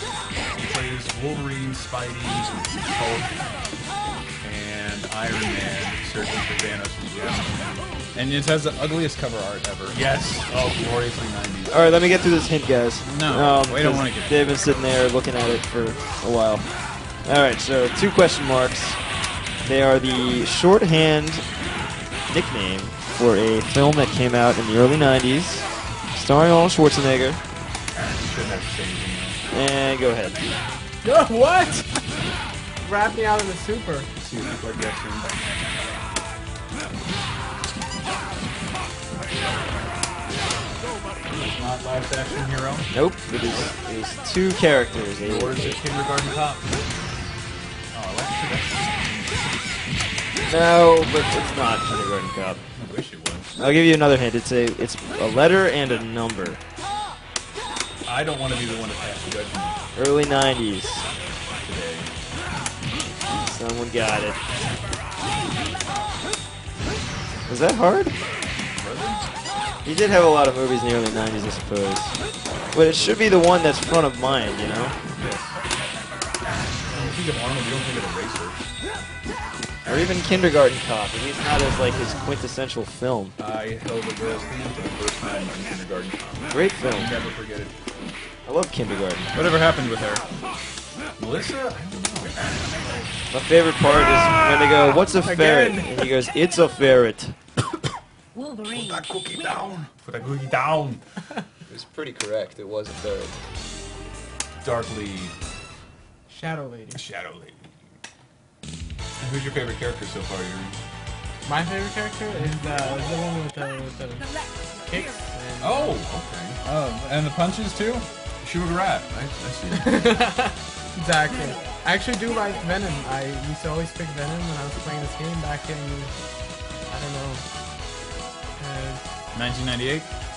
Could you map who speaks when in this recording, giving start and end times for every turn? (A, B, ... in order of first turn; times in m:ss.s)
0:00.5-0:03.6 A
0:04.4-0:07.8 A
0:08.1-0:10.0 B
0:09.9-0:12.0 A
0:11.7-0:16.7 C
0:13.0-0:14.8 B
0:17.2-0:19.0 C
0:19.6-0:21.4 C
0:22.3-0:27.4 C
0:28.2-0:29.4 A
0:29.5-0:30.4 C
0:31.0-0:32.0 D
0:32.8-0:34.1 D
0:34.2-0:35.3 A
0:41.4-0:42.9 A
0:42.9-0:45.8 C
0:45.2-0:46.7 A
0:47.9-0:49.2 A
0:50.4-0:52.6 C
0:52.8-0:53.7 A
0:53.6-0:56.6 C
0:58.0-0:59.8 A
1:00.0-1:01.0 C
1:01.6-1:02.1 A
1:03.4-1:04.4 C
1:07.5-1:08.2 C
1:08.8-1:09.2 A
1:09.8-1:12.2 C
1:12.7-1:15.0 C
1:15.2-1:15.6 A
1:16.9-1:18.6 A
1:19.8-1:23.4 C
1:23.4-1:27.7 A
1:26.5-1:27.2 C
1:28.4-1:29.3 C
1:29.3-1:30.2 B
1:31.2-1:32.5 A
1:33.3-1:37.4 C
1:34.9-1:36.0 D
1:38.7-1:41.0 A
1:41.7-1:43.4 C
1:44.6-1:45.3 A
1:46.3-1:47.0 D
1:46.9-1:47.6 A
1:49.2-1:50.8 A
1:51.4-1:54.3 D
1:54.8-1:56.0 D
1:55.6-1:56.6 A
1:56.6-1:58.1 B
1:58.4-2:00.0 A
1:59.8-2:06.2 D
2:06.8-2:07.4 D
2:08.6-2:09.0 D
2:09.3-2:10.1 B